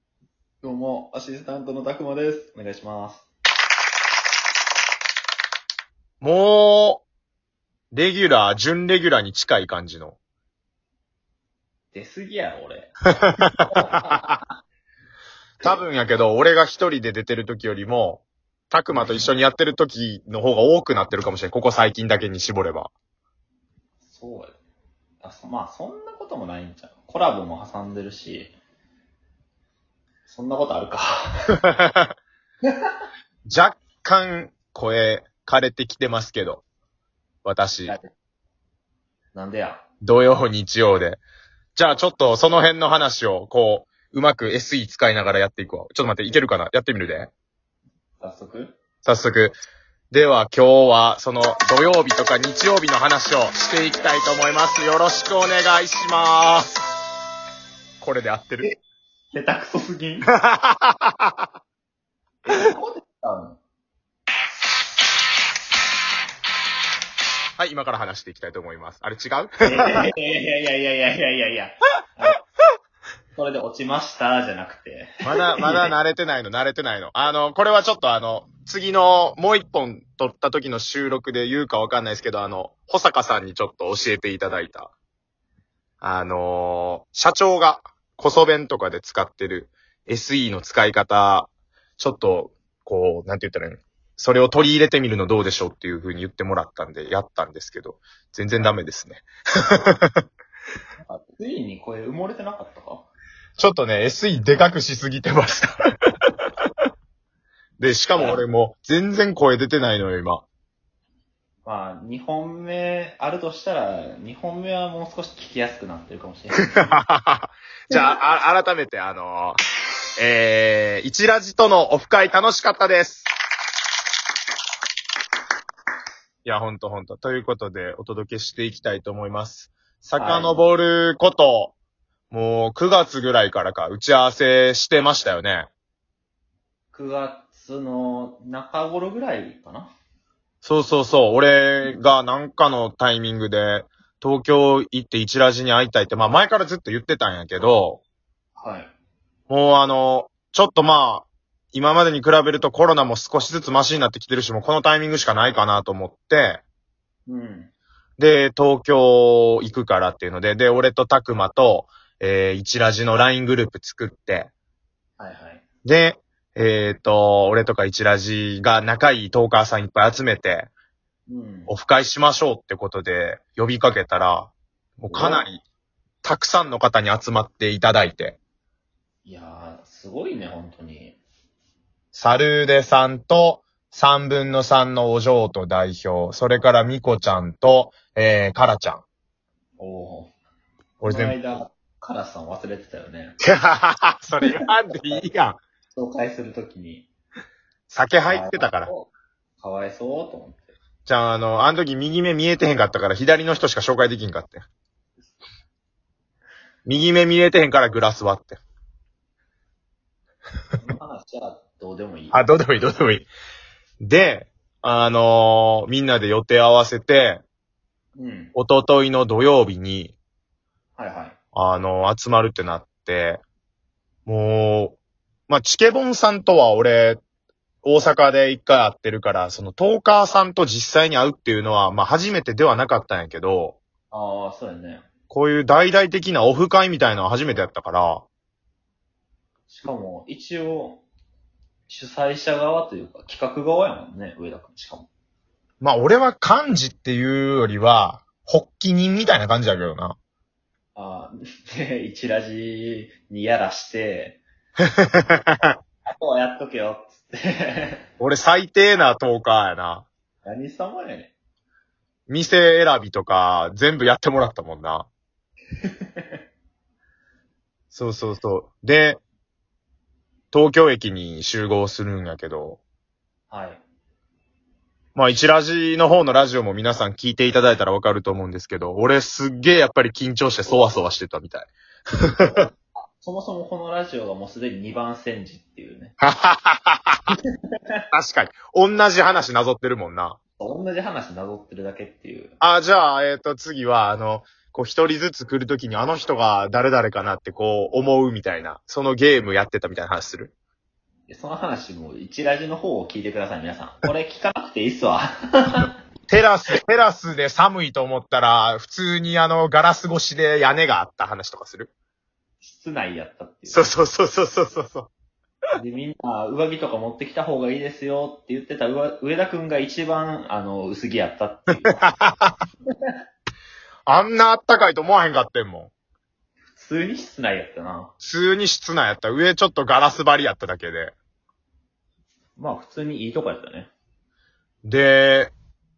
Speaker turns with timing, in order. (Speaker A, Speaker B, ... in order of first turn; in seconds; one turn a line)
Speaker A: 0.6-3.3
Speaker B: 6.2-7.0
Speaker B: 7.9-10.2
Speaker A: 11.9-14.5
Speaker B: 13.2-14.3
Speaker B: 15.6-22.9
Speaker A: 24.0-24.6
Speaker A: 25.2-28.5
Speaker A: 30.3-31.6
Speaker B: 31.7-32.1
Speaker B: 33.5-36.6
Speaker B: 37.5-38.0
Speaker A: 39.3-39.8
Speaker B: 40.0-41.2
Speaker B: 41.8-47.3
Speaker A: 48.2-48.8
Speaker B: 49.0-49.6
Speaker B: 50.1-56.8
Speaker B: 58.0-58.7
Speaker A: 59.3-60.3
Speaker B: 60.3-61.4
Speaker A: 62.5-63.6
Speaker B: 67.6-70.1
Speaker A: 69.6-72.4
Speaker A: 73.4-75.9
Speaker B: 75.2-84.9
Speaker B: 86.0-100.2
Speaker A: 101.0-103.1
Speaker B: 103.6-105.8
Speaker B: 107.8-110.5
Speaker A: 111.7-117.0
Speaker B: 116.7-119.6
Speaker B: 120.2-123.3
Speaker B: 126.5-131.8
Speaker A: 130.2-130.7
Speaker B: 132.3-135.7
Speaker A: 136.9-139.9
Speaker B: 140.6-148.0
Speaker A: 148.6-148.9
Speaker B: 149.5-156.6
Speaker A: 157.3-157.7
Speaker B: 158.2-164.5
Speaker A: 165.2-165.6
Speaker B: 165.8-170.7
Speaker A: 171.3-171.7
Speaker B: 171.7-175.6
Speaker A: 175.1-175.5
Speaker B: 176.2-178.4
Speaker A: 179.2-181.2
Speaker B: 182.1-189.0
Speaker A: 189.8-190.3
Speaker B: 191.0-191.4
Speaker A: 191.0-193.4
Speaker B: 193.4-195.6
Speaker A: 195.9-197.1
Speaker B: 197.9-198.9
Speaker A: 198.3-200.7
Speaker B: 201.1-204.6
Speaker B: 206.8-208.6
Speaker A: 210.8-212.5
Speaker B: 212.3-213.3
Speaker B: 214.0-217.4
Speaker A: 218.2-218.5
Speaker B: 218.6-220.2
Speaker A: 221.0-221.4
Speaker B: 221.5-223.4
Speaker B: 224.3-225.0
Speaker B: 225.5-227.2
Speaker B: 227.8-233.8
Speaker A: 234.1-235.1
Speaker B: 235.3-238.2
Speaker A: 239.7-241.0
Speaker A: 241.9-245.1
Speaker B: 245.8-250.2
Speaker A: 250.9-254.4
Speaker B: 255.1-255.8
Speaker A: 256.1-258.0
Speaker B: 258.2-260.1
Speaker A: 260.4-261.3
Speaker B: 262.3-265.1
Speaker A: 265.8-266.4
Speaker B: 267.9-269.2
Speaker B: 270.5-272.8
Speaker A: 273.5-273.8
Speaker B: 275.1-281.7
Speaker B: 282.3-282.6
Speaker A: 282.4-286.1
Speaker B: 286.2-287.3
Speaker B: 288.1-290.4
Speaker A: 290.6-292.6
Speaker B: 292.6-300.5
Speaker A: 301.3-305.9
Speaker B: 306.3-311.9
Speaker A: 312.6-313.9
Speaker B: 313.7-315.1
Speaker A: 315.8-322.0
Speaker B: 321.9-322.6
Speaker B: 324.1-325.9
Speaker A: 326.8-328.1
Speaker B: 328.2-331.1
Speaker A: 332.6-333.9
Speaker B: 334.8-335.5